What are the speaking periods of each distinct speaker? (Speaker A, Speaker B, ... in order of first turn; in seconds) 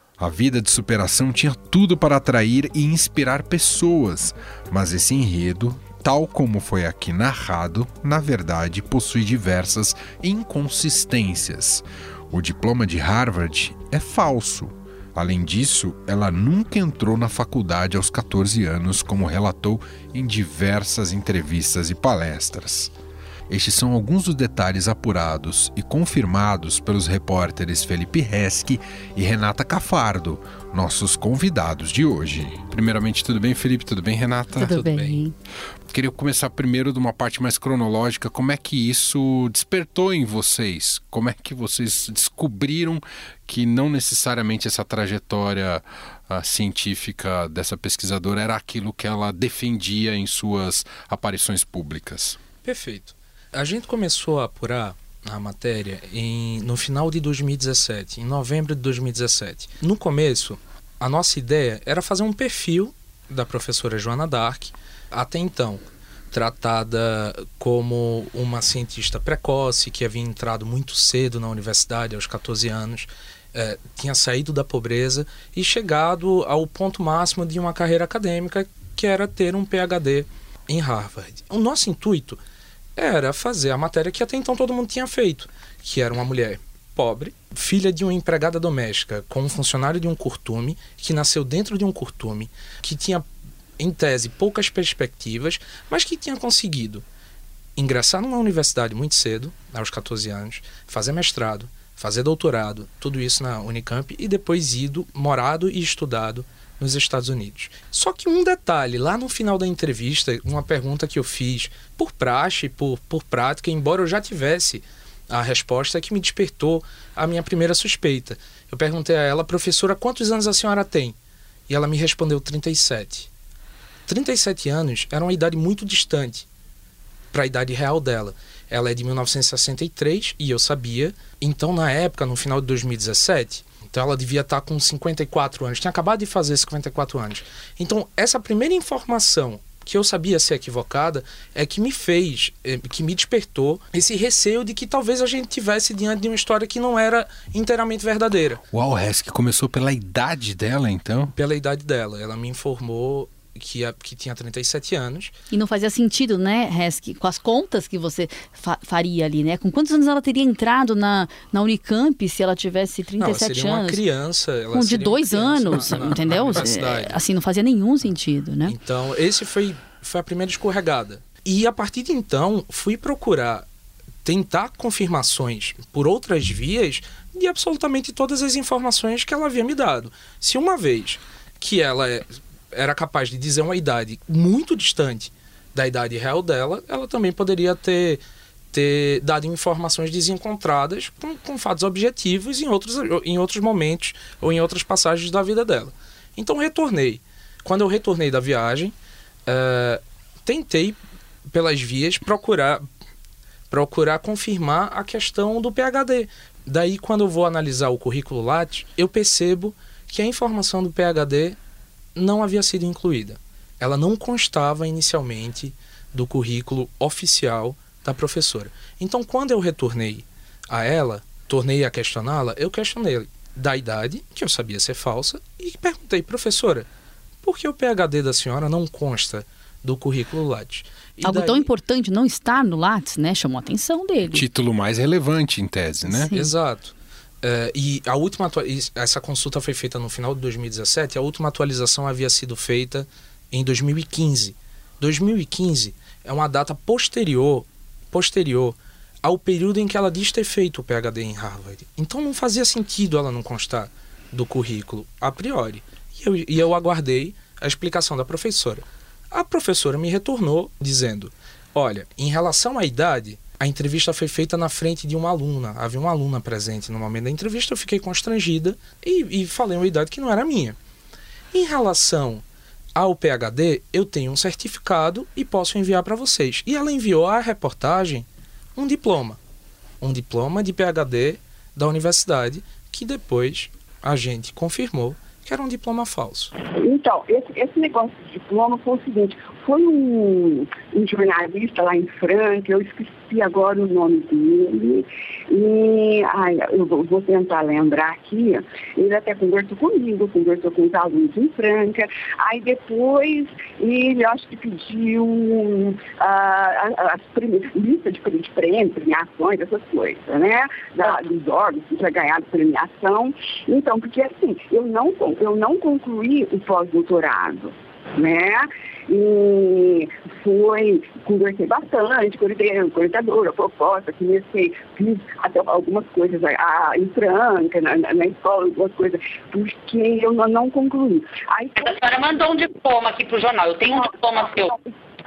Speaker A: 0.2-22.9, 23.5-35.2, 35.9-52.4, 148.7-151.3, 234.3-236.3
Speaker B: 34.6-35.3, 155.5-164.0, 164.7-168.8, 231.2-234.4, 236.1-236.5
Speaker C: 52.6-82.4, 83.0-93.2, 93.8-97.0, 97.8-121.2, 121.7-123.3, 124.1-126.5, 127.3-148.6, 151.3-155.3, 163.2-167.2, 168.7-173.7, 174.2-188.2, 188.7-198.9, 199.4-201.0, 201.5-202.8, 203.7-211.6, 212.1-226.9, 227.4-231.7, 236.3-270.8, 271.5-272.4, 272.9-279.4, 280.0-286.5
Speaker D: 286.8-332.0, 334.5-334.8
Speaker E: 331.8-334.7